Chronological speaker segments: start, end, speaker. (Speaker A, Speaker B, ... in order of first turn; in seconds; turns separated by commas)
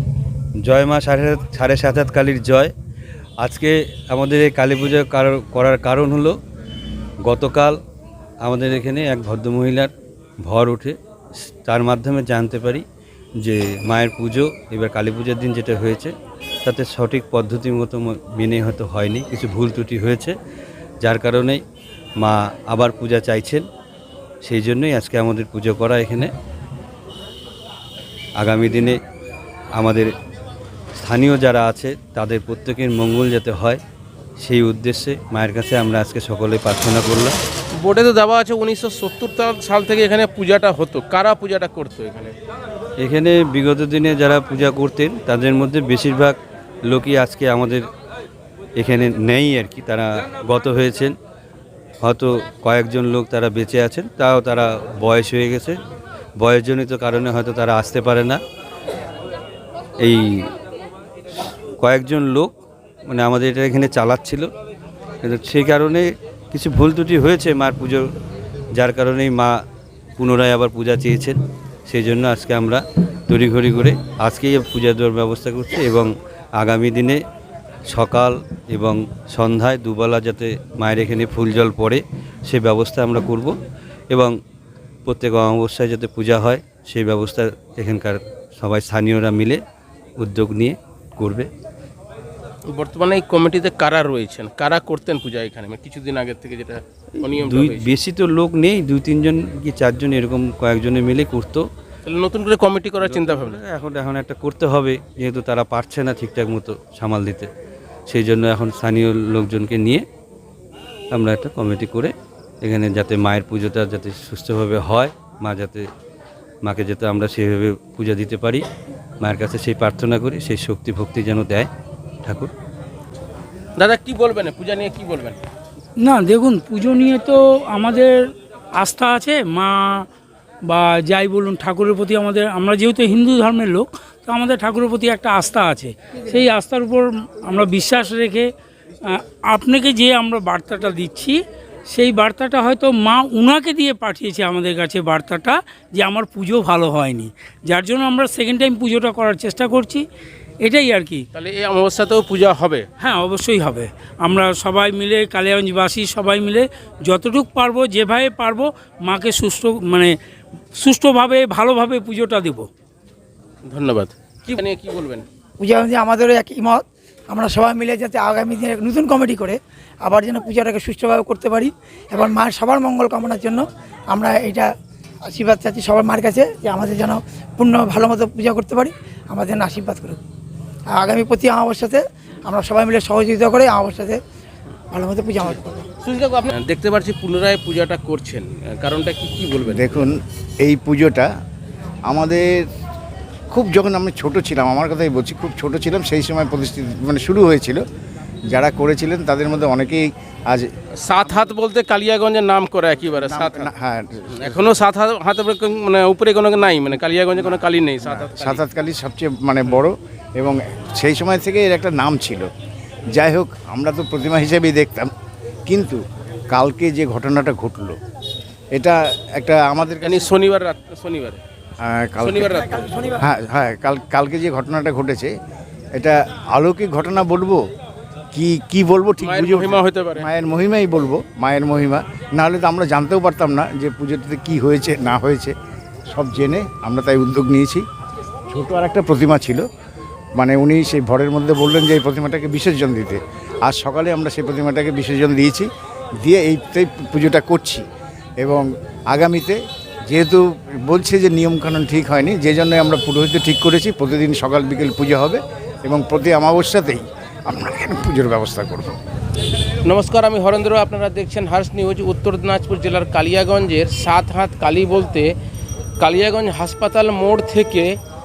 Speaker A: 0.7-2.7, Speaker A: 3.4-6.4, Speaker A: 7.2-7.8, Speaker A: 8.4-9.9, Speaker A: 10.4-12.8, Speaker A: 13.4-16.1, Speaker A: 16.6-20.4, Speaker A: 21.0-21.6, Speaker A: 22.2-23.6, Speaker A: 24.4-26.3, Speaker A: 28.4-29.0, Speaker A: 29.8-30.1, Speaker A: 31.0-33.8, Speaker A: 34.4-37.4, Speaker B: 37.8-42.3, Speaker A: 43.0-47.8, Speaker A: 48.8-51.1, Speaker A: 52.0-55.8, Speaker A: 56.4-58.4, Speaker A: 60.0-60.5, Speaker A: 61.8-62.5, Speaker A: 63.1-64.5, Speaker A: 65.2-68.0, Speaker A: 68.8-69.6, Speaker A: 70.2-77.2, Speaker A: 77.9-83.5, Speaker A: 85.1-89.6, Speaker A: 90.2-91.5, Speaker B: 92.7-98.0, Speaker A: 97.4-101.7, Speaker B: 102.1-103.6, Speaker A: 103.0-107.5, Speaker A: 108.1-110.1, Speaker A: 111.1-115.9, Speaker A: 116.6-118.7, Speaker A: 119.2-121.7, Speaker A: 122.2-122.5, Speaker B: 123.8-125.4, Speaker C: 126.0-130.1, Speaker C: 130.7-138.5, Speaker C: 139.1-150.1, Speaker C: 150.6-151.2, Speaker B: 151.3-152.9, Speaker C: 153.0-160.1, Speaker C: 160.8-162.7, Speaker B: 163.7-165.2, Speaker D: 165.6-174.7, Speaker D: 175.2-180.2, Speaker D: 180.9-184.2, Speaker D: 184.9-185.9, Speaker B: 186.0-190.1, Speaker E: 189.7-191.3, Speaker E: 192.1-192.7, Speaker E: 193.5-197.8, Speaker E: 198.5-200.7, Speaker B: 201.0-203.7, Speaker E: 203.2-204.6, Speaker B: 204.3-208.6, Speaker E: 208.1-212.5, Speaker E: 213.1-215.1, Speaker E: 215.7-218.0, Speaker E: 218.7-220.3, Speaker B: 220.0-221.4, Speaker E: 221.8-225.3, Speaker B: 222.2-222.9, Speaker E: 225.9-227.6, Speaker E: 228.3-235.5, Speaker B: 229.2-230.3, Speaker E: 236.1-237.8, Speaker E: 238.5-239.6, Speaker E: 240.4-245.7, Speaker E: 246.2-247.8, Speaker E: 248.4-259.0, Speaker B: 259.8-265.3, Speaker B: 266.0-268.0